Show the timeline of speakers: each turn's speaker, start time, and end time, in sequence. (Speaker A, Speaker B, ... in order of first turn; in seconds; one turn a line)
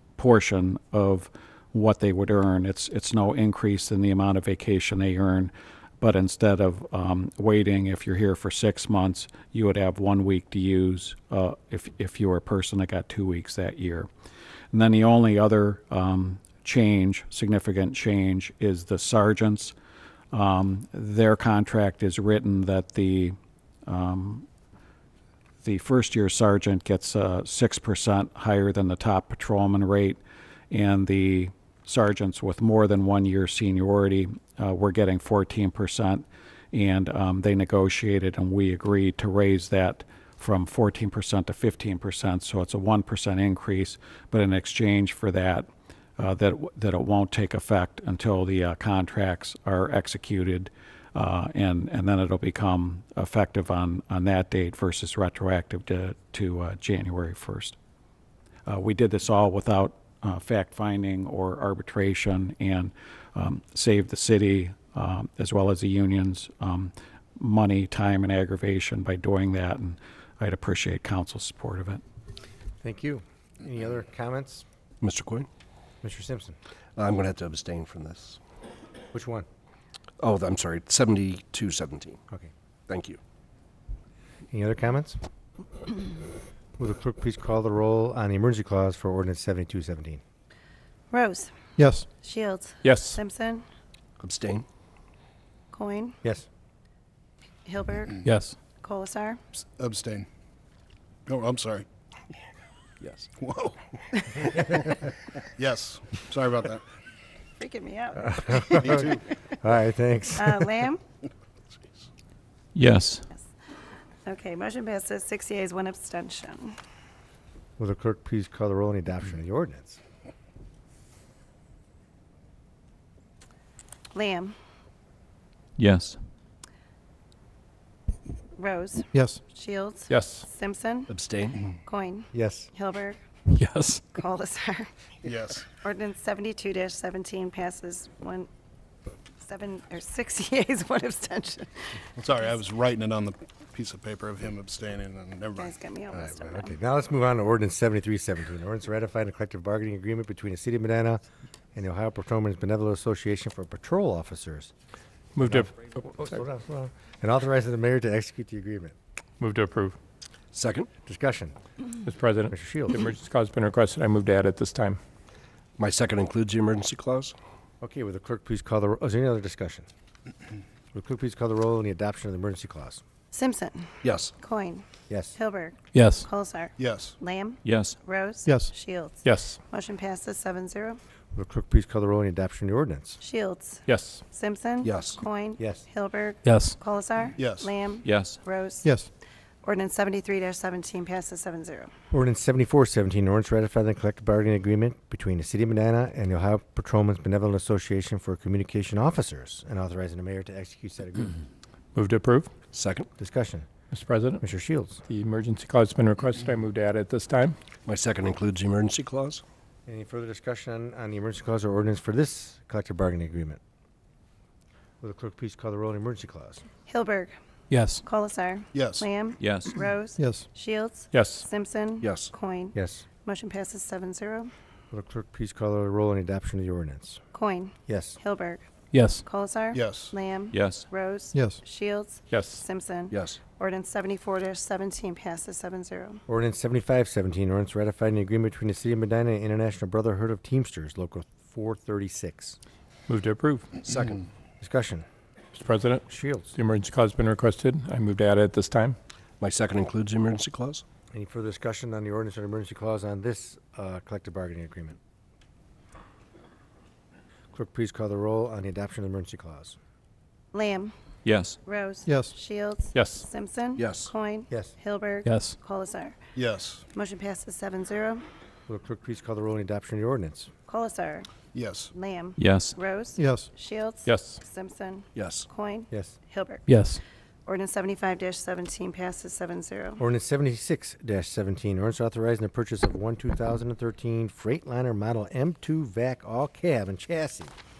Speaker A: 0.2-14.1
Speaker A: 14.7-19.7
Speaker A: 20.3-24.4
Speaker A: 25.6-30.2
Speaker A: 30.7-57.8
Speaker A: 58.7-72.0
Speaker B: 72.8-74.6
Speaker C: 75.0-75.5
Speaker B: 76.0-76.5
Speaker C: 77.0-78.4
Speaker B: 79.1-79.5
Speaker C: 80.2-82.2
Speaker C: 82.9-83.2
Speaker B: 84.5-85.2
Speaker B: 86.8-90.2
Speaker D: 91.1-91.5
Speaker E: 91.8-92.0
Speaker D: 92.2-93.6
Speaker F: 92.8-93.2
Speaker C: 94.2-94.7
Speaker D: 95.7-96.2
Speaker D: 97.7-98.2
Speaker F: 98.2-98.5
Speaker D: 98.8-99.4
Speaker G: 99.8-100.3
Speaker G: 101.2-101.8
Speaker C: 103.0-103.3
Speaker G: 103.4-103.7
Speaker G: 105.6-106.8
Speaker D: 107.6-109.2
Speaker B: 108.2-110.7
Speaker D: 110.3-111.0
Speaker D: 114.2-116.8
Speaker B: 117.8-120.0
Speaker D: 124.1-124.5
Speaker D: 128.6-131.1
Speaker F: 130.1-130.5
Speaker C: 131.1-131.7
Speaker D: 131.8-133.2
Speaker B: 132.3-132.7
Speaker F: 133.5-134.0
Speaker D: 134.1-134.9
Speaker G: 135.2-135.6
Speaker D: 135.8-138.5
Speaker D: 139.4-142.0
Speaker G: 142.2-145.6
Speaker D: 145.5-146.8
Speaker B: 146.5-151.2
Speaker B: 151.7-154.7
Speaker F: 155.3-155.8
Speaker B: 155.4-158.9
Speaker F: 159.4-160.0
Speaker C: 160.5-160.9
Speaker B: 161.0-161.5
Speaker F: 162.1-165.0
Speaker B: 162.5-163.0
Speaker C: 165.8-167.3
Speaker B: 167.8-169.9
Speaker B: 170.9-173.0
Speaker D: 173.3-181.0
Speaker C: 174.0-174.3
Speaker B: 175.1-175.3
Speaker F: 175.9-176.3
Speaker G: 176.9-177.1
Speaker F: 179.2-179.6
Speaker B: 181.3-183.2
Speaker D: 183.2-189.0
Speaker F: 183.9-184.2
Speaker C: 184.8-185.2
Speaker B: 185.6-185.8
Speaker F: 186.4-186.8
Speaker D: 189.6-191.9
Speaker B: 192.1-201.4
Speaker F: 201.9-202.5
Speaker C: 202.7-203.1
Speaker B: 203.2-203.7
Speaker F: 203.9-204.4
Speaker B: 204.4-205.0
Speaker F: 205.1-207.6
Speaker C: 207.8-209.4
Speaker B: 209.8-213.6
Speaker B: 215.0-216.6
Speaker D: 216.9-217.3
Speaker F: 217.7-218.0
Speaker D: 218.0-224.5
Speaker G: 218.7-219.1
Speaker E: 219.4-220.4
Speaker F: 221.1-221.5
Speaker C: 222.0-222.3
Speaker B: 222.7-223.0
Speaker B: 224.9-227.2
Speaker D: 227.3-228.6
Speaker B: 227.9-228.2
Speaker F: 228.9-229.2
Speaker D: 229.2-236.2
Speaker F: 232.3-232.6
Speaker C: 233.1-233.4
Speaker B: 236.3-242.6
Speaker F: 243.1-243.8
Speaker C: 243.8-244.2
Speaker B: 244.6-245.0
Speaker F: 245.5-246.0
Speaker B: 246.1-246.5
Speaker F: 246.5-249.0
Speaker C: 249.4-250.8
Speaker B: 251.1-255.0
Speaker B: 257.5-259.8
Speaker D: 260.5-260.9
Speaker D: 261.6-266.2
Speaker F: 262.9-263.3
Speaker C: 263.8-264.1
Speaker F: 265.2-265.6
Speaker G: 266.4-266.8
Speaker D: 266.9-268.2
Speaker B: 268.7-270.5
Speaker D: 270.7-271.3
Speaker G: 271.5-271.9
Speaker D: 271.9-276.7
Speaker E: 272.4-273.4
Speaker F: 274.0-274.4
Speaker C: 275.1-275.5
Speaker B: 275.9-276.1
Speaker F: 276.7-277.0
Speaker D: 277.4-280.0
Speaker B: 280.0-287.5